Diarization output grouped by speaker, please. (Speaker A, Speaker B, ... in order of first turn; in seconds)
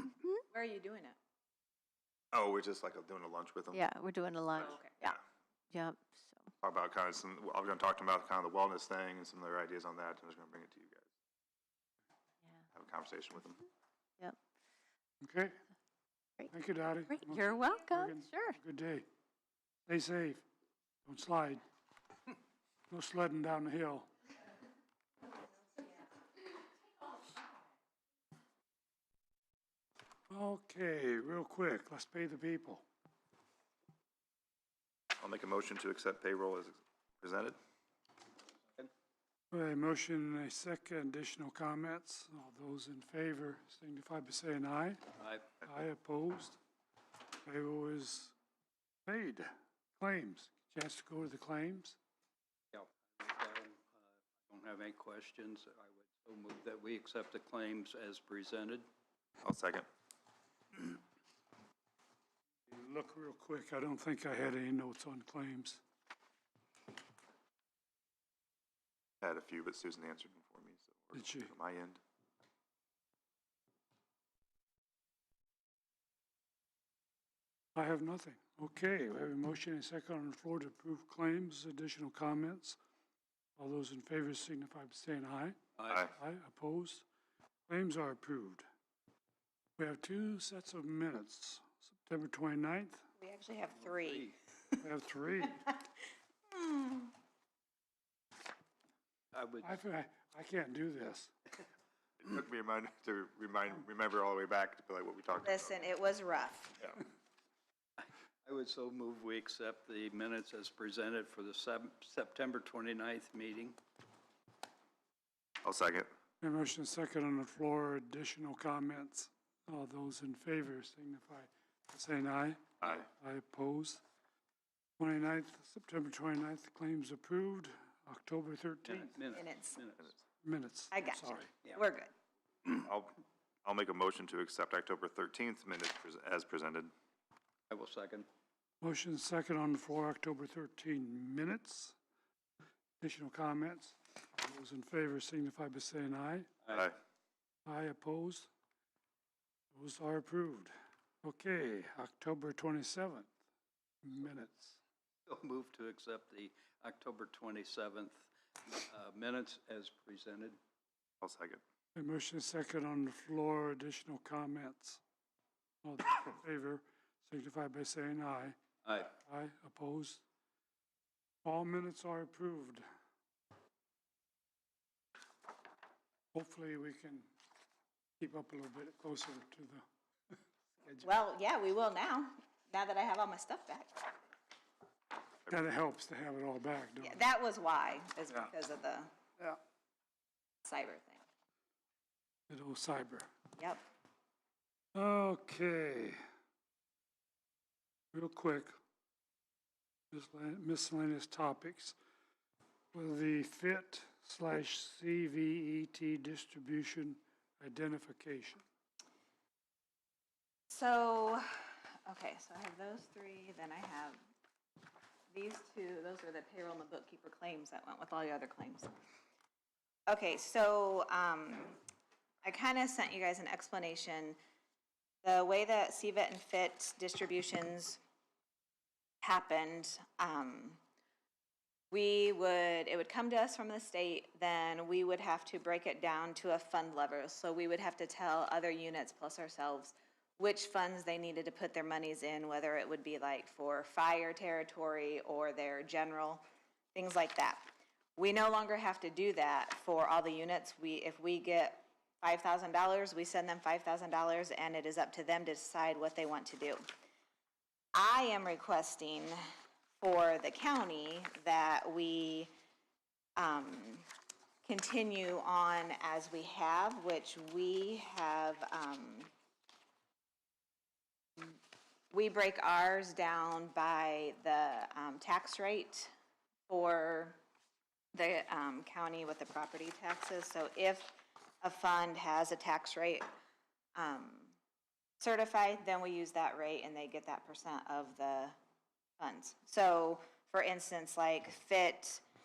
Speaker A: 0.5-1.1, 4.5-5.1, 93.2-94.3, 96.5-97.1, 105.4-106.8, 129.3-129.8, 130.9-132.1, 181.0-184.1, 187.0-189.1, 190.6-191.2, 193.6-193.8, 210.7-214.2, 215.3-218.9, 220.1-221.8, 222.4-224.3, 225.2-228.0, 229.2-230.8, 231.9-246.4, 246.9-256.9, 257.9-259.4, 260.0-262.5, 263.4-264.1, 264.6-269.3, 272.1-276.1, 276.7-277.4, 278.1-283.2, 284.0-284.6, 285.2-288.6, 289.2-292.2
Speaker B: 2.3-3.9, 6.6-11.1, 12.7-13.6, 35.2-37.6, 59.4-59.9, 69.2-72.0, 102.2-105.8, 115.6-116.1, 122.8-123.0, 132.8-136.9, 161.2-161.6
Speaker C: 3.7-5.1, 5.7-6.5, 17.2-18.6
Speaker D: 15.2-15.6, 16.5-19.1, 19.9-20.4, 21.1-21.6, 22.9-24.1, 30.3-32.8, 39.5-45.0, 45.6-46.6, 47.5-48.3, 49.0-49.5, 50.0-52.0, 62.7-65.8, 71.1-71.5, 77.7-82.8, 83.6-85.6, 86.1-87.0, 87.7-88.7, 89.8-93.0, 94.8-95.6, 99.6-101.3, 116.4-124.0, 125.0-129.2, 130.4-131.5, 138.8-141.9, 143.0-146.5, 147.7-148.5, 149.7-153.3, 154.0-154.8, 161.9-165.0, 165.8-168.6, 169.2-170.2, 171.4-172.8, 176.3-177.3, 178.2-179.8, 180.8-181.1, 185.5-187.2, 192.5-193.3, 194.9-196.2, 198.1-198.7, 200.1-201.9, 202.9-208.6
Speaker E: 45.2-45.5, 52.7-58.8, 85.8-86.1, 93.8-94.3, 99.3-99.8, 108.0-113.8, 128.8-130.2, 137.7-138.3, 146.7-146.9, 155.2-160.6, 168.8-169.1